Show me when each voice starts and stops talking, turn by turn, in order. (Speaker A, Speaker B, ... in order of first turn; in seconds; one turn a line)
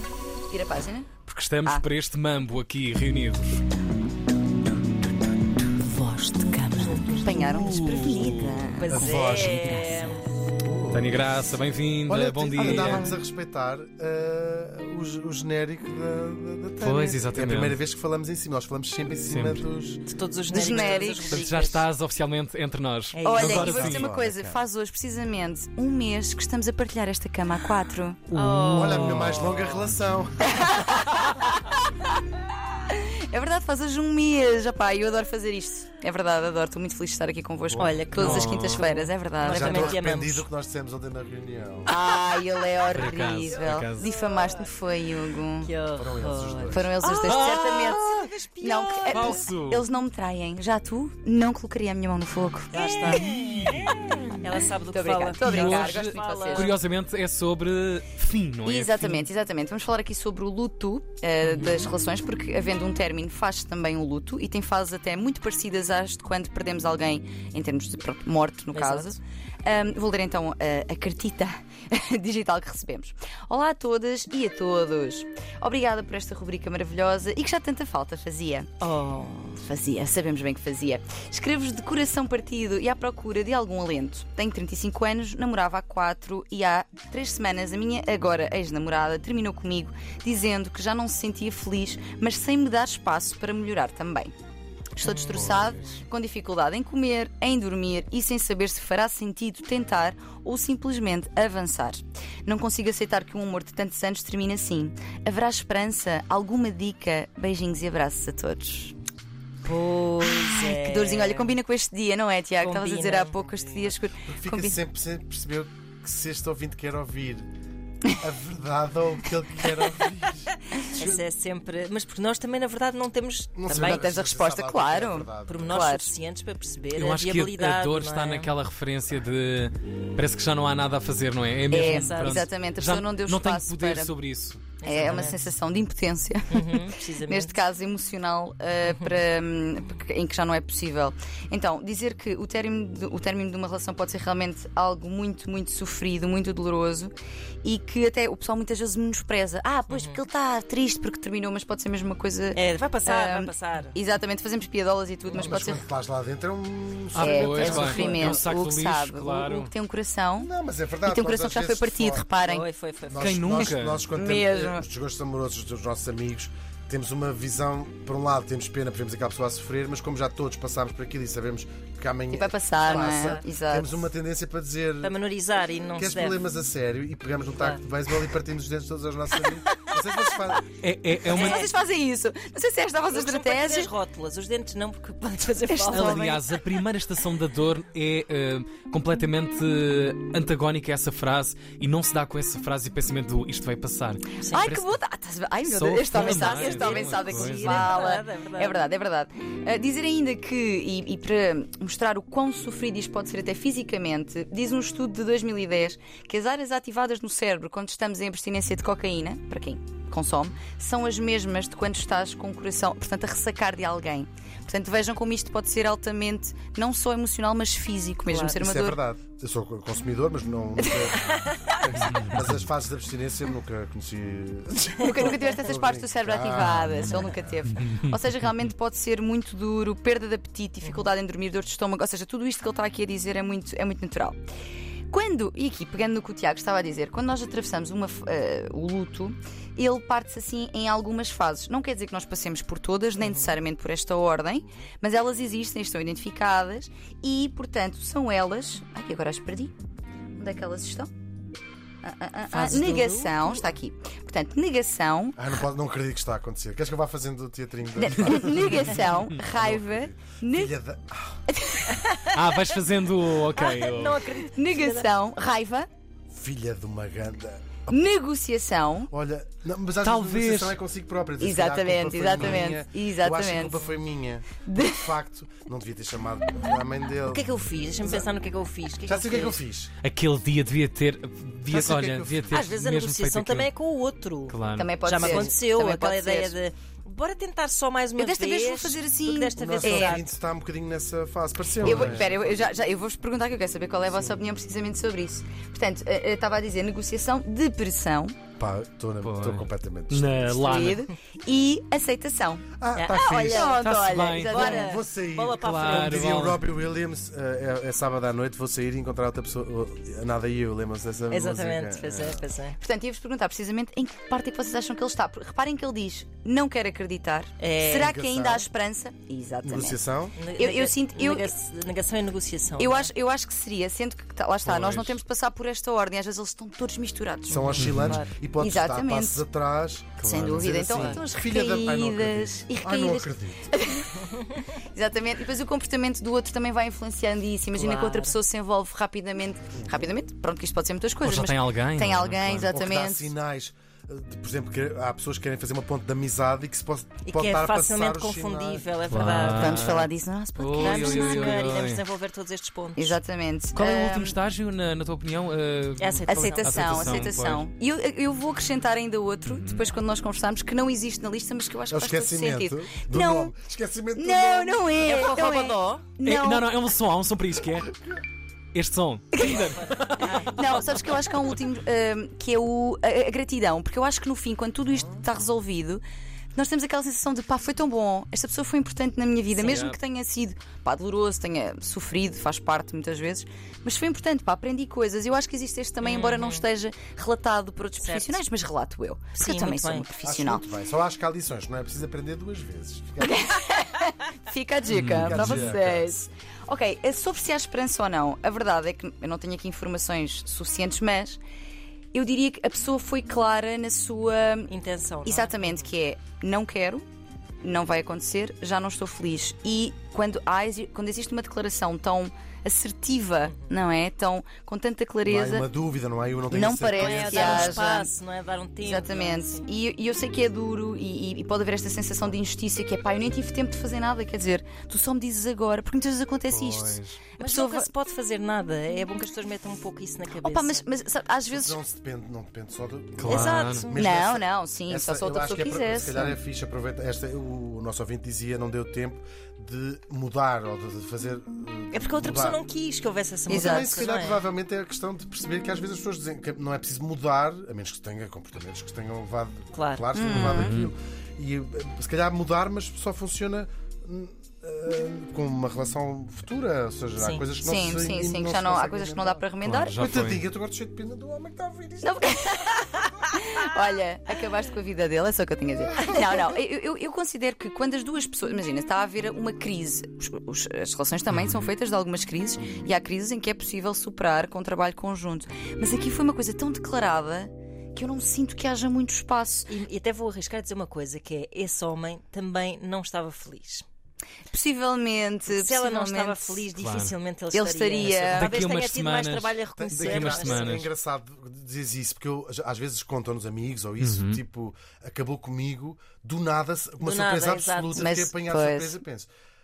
Speaker A: 0.5-1.1
Speaker B: 1.2-3.6
Speaker A: 5.8-10.3
Speaker C: 6.8-7.2
Speaker B: 7.3-8.7
Speaker C: 8.8-10.3
Speaker D: 8.9-9.8
Speaker D: 10.6-11.2
Speaker B: 10.9-13.2
Speaker D: 12.1-20.0
Speaker A: 12.6-13.1
Speaker B: 16.8-17.8
Speaker B: 19.3-19.7
Speaker C: 20.1-21.9
Speaker A: 20.5-21.5
Speaker B: 21.2-24.1
Speaker C: 23.1-23.9
Speaker A: 23.2-28.2
Speaker D: 23.4-24.6
Speaker B: 28.3-29.6
Speaker C: 28.3-29.8
Speaker D: 28.8-31.0
Speaker A: 30.5-31.8
Speaker A: 32.9-40.0
Speaker B: 37.7-38.8
Speaker C: 37.8-40.5
Speaker D: 39.5-41.9
Speaker A: 41.9-45.7
Speaker B: 42.9-44.1
Speaker C: 45.6-49.4
Speaker D: 46.0-46.9
Speaker A: 46.7-53.3
Speaker B: 47.2-48.3
Speaker B: 49.1-49.9
Speaker C: 52.7-56.7
Speaker A: 54.9-56.8
Speaker B: 55.4-59.3
Speaker A: 58.6-78.7
Speaker C: 68.7-69.1
Speaker C: 78.8-79.6
Speaker A: 79.6-94.3
Speaker A: 95.0-109.0
Speaker C: 95.0-96.0
Speaker C: 109.6-111.6
Speaker A: 110.4-114.8
Speaker C: 112.6-113.9
Speaker D: 114.2-117.5
Speaker D: 118.2-121.2
Speaker C: 120.9-124.1
Speaker D: 123.5-125.9
Speaker A: 123.7-126.1
Speaker C: 125.5-128.5
Speaker B: 126.9-135.1
Speaker A: 131.7-134.1
Speaker C: 131.7-132.5
Speaker C: 134.8-135.4
Speaker A: 134.8-147.1
Speaker C: 136.5-137.6
Speaker C: 138.9-139.2
Speaker A: 147.6-155.8
Speaker C: 149.9-150.2
Speaker C: 152.6-154.0
Speaker C: 155.3-155.5
Speaker D: 155.3-158.4
Speaker B: 157.1-159.7
Speaker A: 157.2-160.5
Speaker C: 157.7-158.2
Speaker D: 160.4-162.3
Speaker A: 161.0-162.7
Speaker C: 162.4-163.7
Speaker D: 163.1-175.1
Speaker B: 163.2-164.1
Speaker A: 164.1-164.8
Speaker A: 172.3-174.1
Speaker C: 172.9-173.4
Speaker C: 175.0-176.4
Speaker D: 176.0-180.7
Speaker C: 177.6-177.8
Speaker B: 180.8-181.6
Speaker A: 181.2-183.9
Speaker C: 181.3-181.7
Speaker C: 183.1-186.3
Speaker A: 185.7-186.4
Speaker B: 185.9-194.9
Speaker A: 194.5-219.0
Speaker B: 195.7-197.9
Speaker C: 196.1-198.8
Speaker C: 218.3-218.6
Speaker D: 218.6-227.2
Speaker A: 220.8-221.2
Speaker C: 221.2-222.0
Speaker B: 222.1-222.5
Speaker A: 225.0-234.4
Speaker A: 235.1-249.7
Speaker C: 243.2-243.6
Speaker A: 250.3-251.1
Speaker A: 252.0-255.4
Speaker C: 252.5-253.7
Speaker D: 255.4-261.4
Speaker A: 258.0-260.8
Speaker A: 261.5-262.0
Speaker B: 262.3-264.2
Speaker C: 263.5-265.1
Speaker A: 264.5-265.9
Speaker D: 266.3-268.0
Speaker A: 267.9-269.1
Speaker D: 269.1-278.3
Speaker B: 270.0-270.8
Speaker A: 271.4-273.8
Speaker A: 274.6-275.1
Speaker C: 277.2-279.6
Speaker D: 279.1-279.9
Speaker B: 280.0-283.7
Speaker D: 281.7-282.7
Speaker C: 282.5-290.3
Speaker B: 284.5-285.0
Speaker A: 284.8-286.6
Speaker A: 288.2-290.2
Speaker D: 289.6-292.7
Speaker B: 291.8-292.3
Speaker A: 291.8-298.4
Speaker D: 298.6-300.6
Speaker B: 299.2-301.1
Speaker A: 300.5-304.9
Speaker D: 302.8-303.7
Speaker C: 302.9-303.8
Speaker B: 303.8-304.8
Speaker C: 304.3-306.3
Speaker D: 304.8-312.4
Speaker B: 305.5-306.7
Speaker C: 311.3-312.8
Speaker A: 312.8-320.0
Speaker C: 317.6-318.2
Speaker D: 318.0-318.7
Speaker D: 319.6-320.4
Speaker C: 320.4-323.1
Speaker A: 320.6-321.5
Speaker A: 322.8-327.9
Speaker B: 324.6-325.2
Speaker D: 327.5-333.7
Speaker C: 327.5-328.3
Speaker B: 327.8-328.2
Speaker A: 328.6-329.5
Speaker B: 330.2-330.7
Speaker A: 330.2-334.1
Speaker C: 330.9-331.2
Speaker A: 334.9-343.3
Speaker C: 337.7-338.4
Speaker D: 339.7-340.1
Speaker B: 341.2-342.7
Speaker D: 342.7-348.9
Speaker C: 347.3-349.9
Speaker B: 349.1-352.0
Speaker A: 349.5-351.7
Speaker C: 350.8-353.2
Speaker A: 353.0-354.4
Speaker B: 353.8-357.6
Speaker C: 356.0-356.9
Speaker A: 356.3-363.5
Speaker B: 359.5-359.8
Speaker D: 361.9-364.9
Speaker A: 364.2-366.7
Speaker C: 365.0-366.1
Speaker B: 366.2-367.9
Speaker B: 368.7-370.4
Speaker A: 369.4-376.0
Speaker C: 369.5-371.2
Speaker A: 376.5-390.7
Speaker B: 379.6-380.0
Speaker C: 386.0-386.6
Speaker C: 388.0-388.4
Speaker C: 389.4-390.1
Speaker D: 390.2-393.4
Speaker A: 393.2-401.4
Speaker B: 394.9-395.7
Speaker D: 395.2-396.2
Speaker A: 402.1-404.7
Speaker C: 404.7-405.9
Speaker A: 405.2-407.0
Speaker A: 407.6-415.7
Speaker C: 413.5-413.8
Speaker D: 415.2-417.8
Speaker A: 416.5-418.1
Speaker C: 416.9-419.7
Speaker A: 418.8-427.9
Speaker B: 426.5-427.2
Speaker C: 427.4-430.9
Speaker A: 430.4-431.8
Speaker D: 431.5-442.6
Speaker B: 433.2-433.9
Speaker C: 433.2-434.0
Speaker A: 433.9-436.4
Speaker C: 441.9-444.5
Speaker A: 443.5-444.1
Speaker D: 443.5-459.5
Speaker C: 449.7-450.1
Speaker A: 450.1-450.8
Speaker B: 450.3-450.9
Speaker C: 457.2-457.4
Speaker A: 457.6-460.0
Speaker B: 459.6-460.4
Speaker D: 460.0-462.9
Speaker A: 462.0-479.7
Speaker C: 479.7-483.9
Speaker A: 484.5-486.7
Speaker C: 485.5-490.8
Speaker B: 486.8-487.1
Speaker A: 487.5-488.6
Speaker B: 488.3-490.9
Speaker D: 489.8-499.3
Speaker B: 494.0-494.4
Speaker C: 497.0-498.1
Speaker A: 497.9-499.0